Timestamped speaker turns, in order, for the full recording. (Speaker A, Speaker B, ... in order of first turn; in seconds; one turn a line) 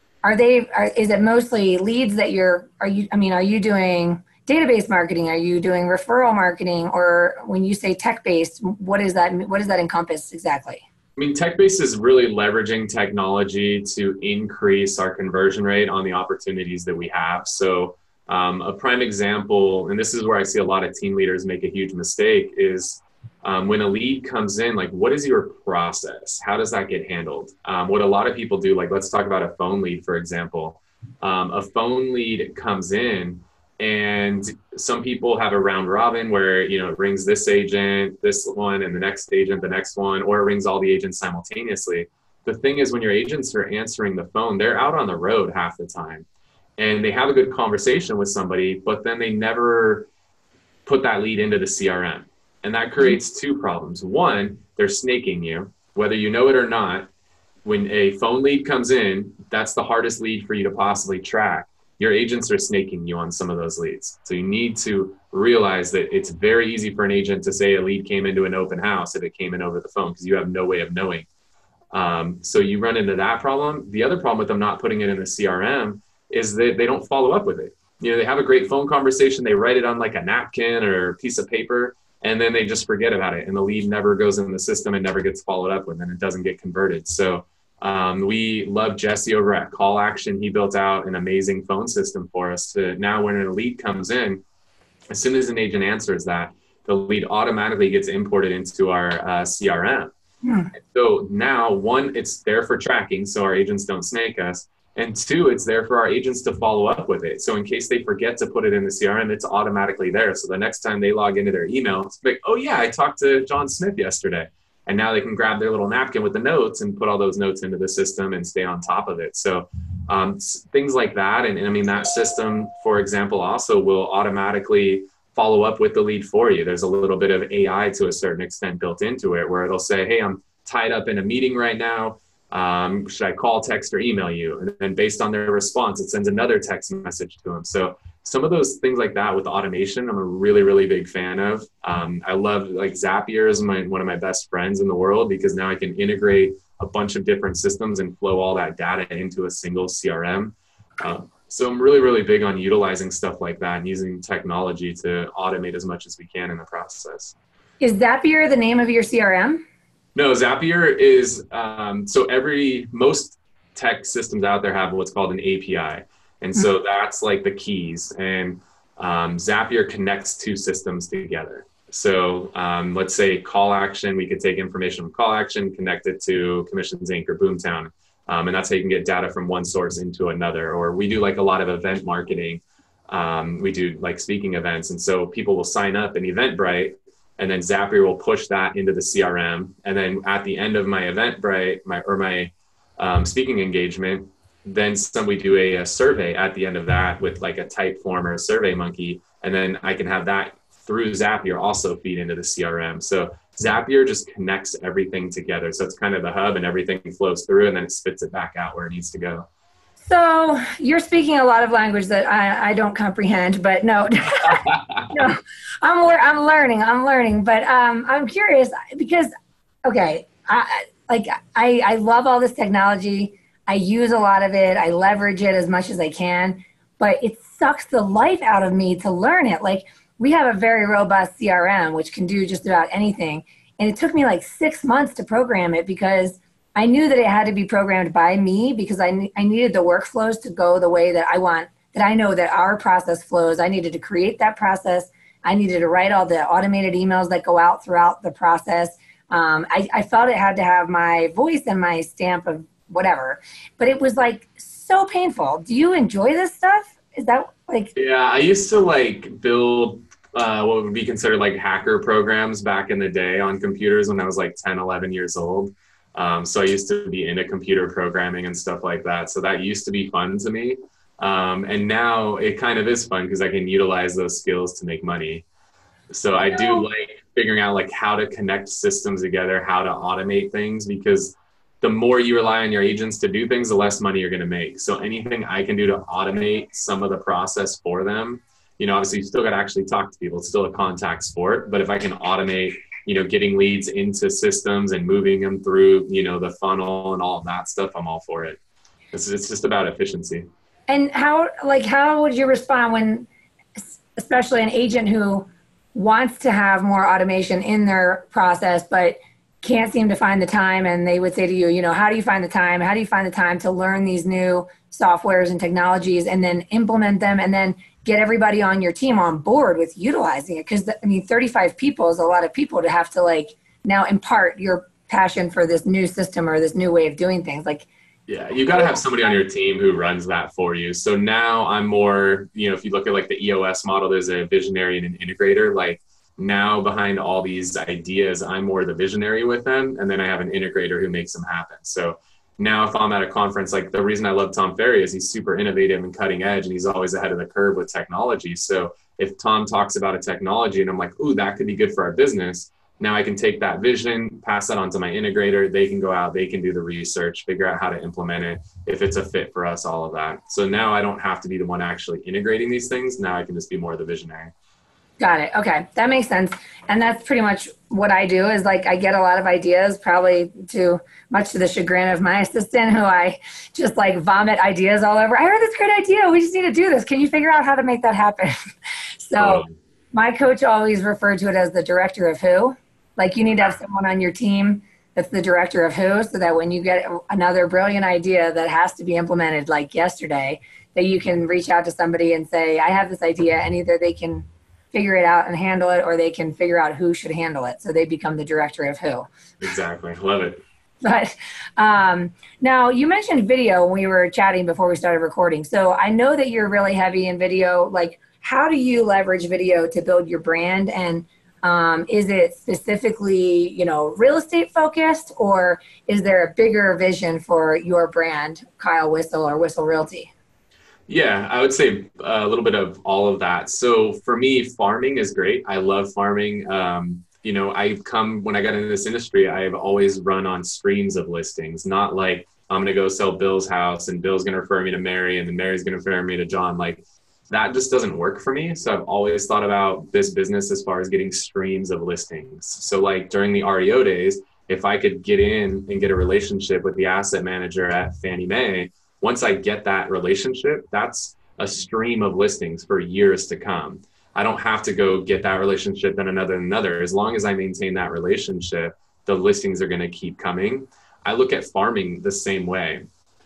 Speaker A: 0.2-10.8
Speaker B: 11.2-46.3
Speaker B: 46.8-50.1
Speaker B: 50.9-57.1
Speaker B: 57.6-71.3
Speaker B: 71.9-94.4
Speaker B: 95.1-100.1
Speaker A: 100.4-100.7
Speaker B: 100.7-157.3
Speaker A: 157.8-159.6
Speaker B: 160.2-209.5
Speaker A: 210.0-219.3
Speaker B: 214.4-215.1
Speaker A: 219.8-257.9
Speaker B: 257.9-275.5
Speaker B: 276.1-298.6
Speaker A: 276.5-276.8
Speaker B: 299.1-300.5
Speaker A: 300.9-303.3
Speaker A: 303.8-327.9
Speaker B: 328.3-364.5
Speaker A: 365.2-378.5
Speaker A: 379.2-399.3
Speaker B: 379.4-379.7
Speaker B: 399.6-400.6
Speaker A: 401.0-420.3
Speaker B: 421.1-463.0